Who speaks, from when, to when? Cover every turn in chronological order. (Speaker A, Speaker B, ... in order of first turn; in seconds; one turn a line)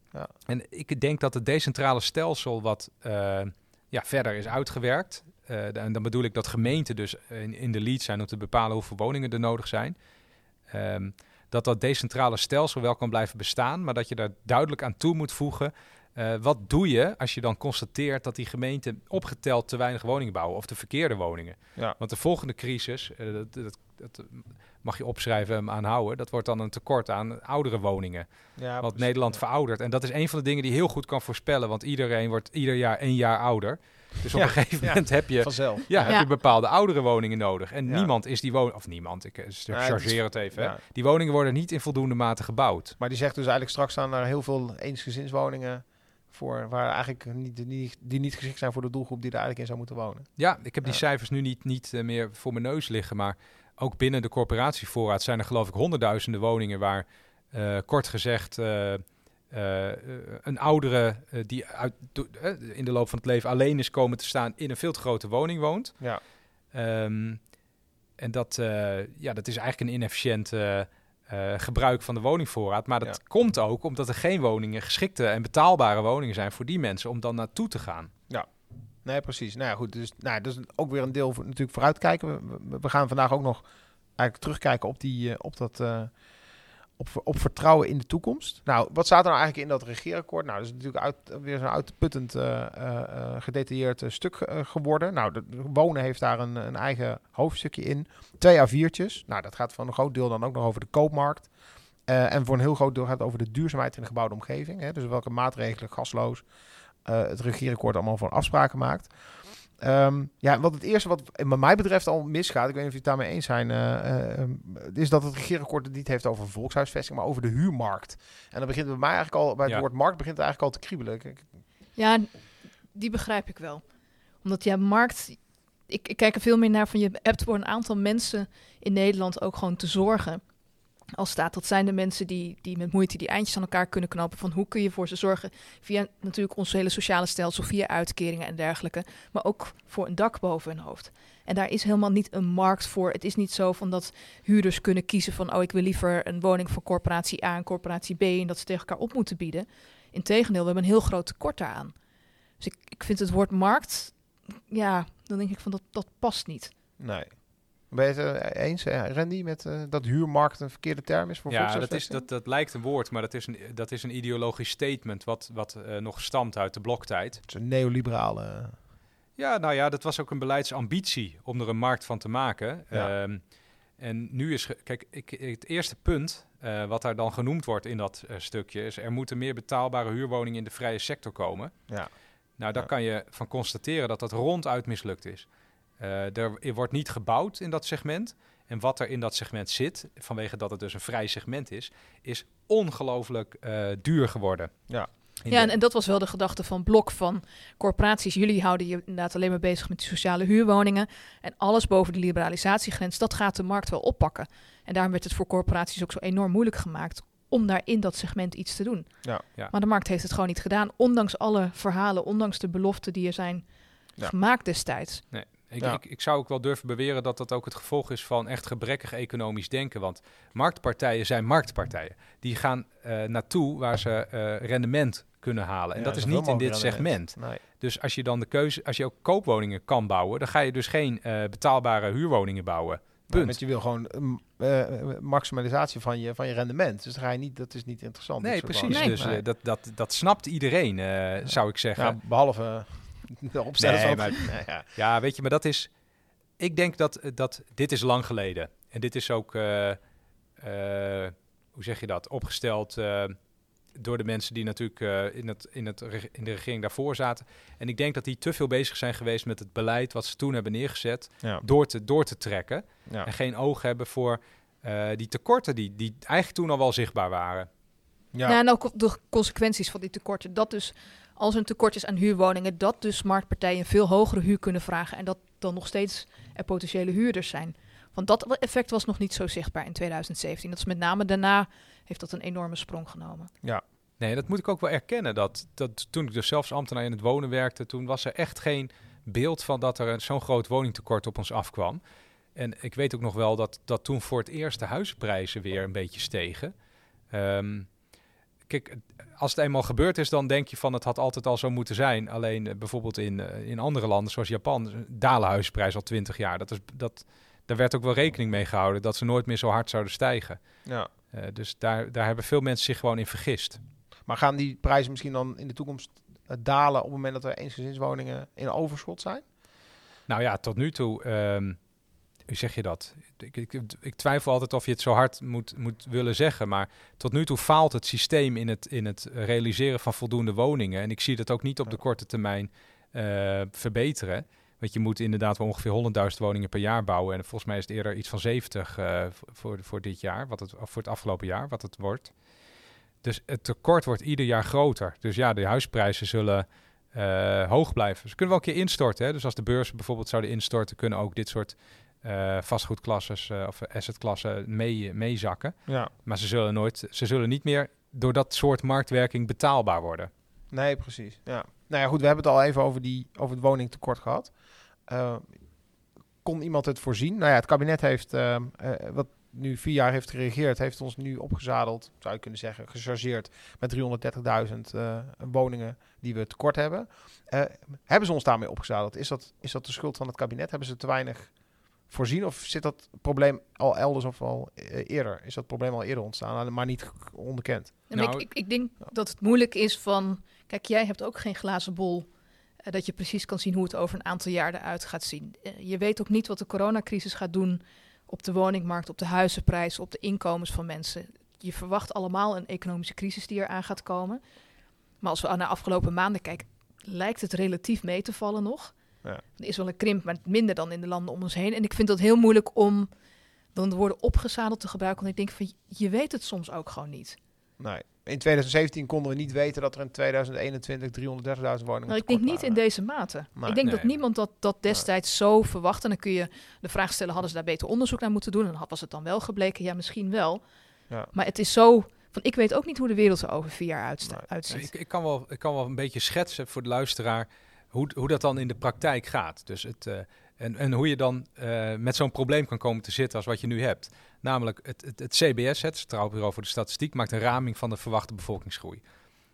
Speaker A: 0.5-10.0
Speaker A: 10.7-43.0
Speaker B: 28.6-29.4
Speaker B: 34.3-36.2
Speaker C: 36.1-36.3
Speaker B: 39.7-40.8
Speaker B: 43.0-50.3
Speaker A: 50.4-66.2
Speaker A: 66.7-67.5
Speaker A: 68.2-78.1
Speaker B: 79.0-86.1
Speaker B: 87.0-101.5
Speaker B: 102.0-106.5
Speaker B: 107.0-121.5
Speaker C: 122.0-123.8
Speaker C: 124.4-130.4
Speaker C: 131.1-151.9
Speaker C: 152.6-156.7
Speaker B: 157.0-162.2
Speaker A: 161.5-167.4
Speaker B: 167.5-168.8
Speaker A: 169.4-182.1
Speaker A: 182.6-195.7
Speaker B: 194.9-195.6
Speaker C: 195.5-215.2
Speaker A: 215.3-233.6
Speaker B: 225.9-227.6
Speaker B: 233.3-239.4
Speaker A: 238.4-242.2
Speaker C: 238.9-239.2
Speaker B: 241.9-244.9
Speaker A: 243.8-245.9
Speaker A: 246.6-250.0
Speaker A: 250.6-253.4
Speaker A: 253.9-267.7
Speaker C: 268.4-283.5
Speaker A: 284.2-292.0
Speaker A: 292.6-296.7
Speaker A: 297.3-298.0
Speaker A: 298.7-310.6
Speaker A: 311.3-313.8
Speaker B: 314.3-319.4
Speaker A: 320.3-321.8
Speaker A: 322.5-342.4
Speaker A: 343.2-360.3
Speaker B: 355.9-356.1
Speaker B: 360.7-365.6
Speaker B: 366.4-381.5
Speaker B: 382.1-388.0
Speaker C: 388.1-392.3
Speaker A: 388.1-388.5
Speaker C: 392.9-404.4
Speaker C: 405.2-409.0
Speaker C: 409.6-413.1
Speaker C: 413.7-417.4
Speaker B: 417.8-422.8
Speaker C: 422.1-430.6
Speaker B: 423.6-423.8
Speaker A: 423.8-424.1
Speaker C: 431.3-434.9
Speaker A: 434.7-449.0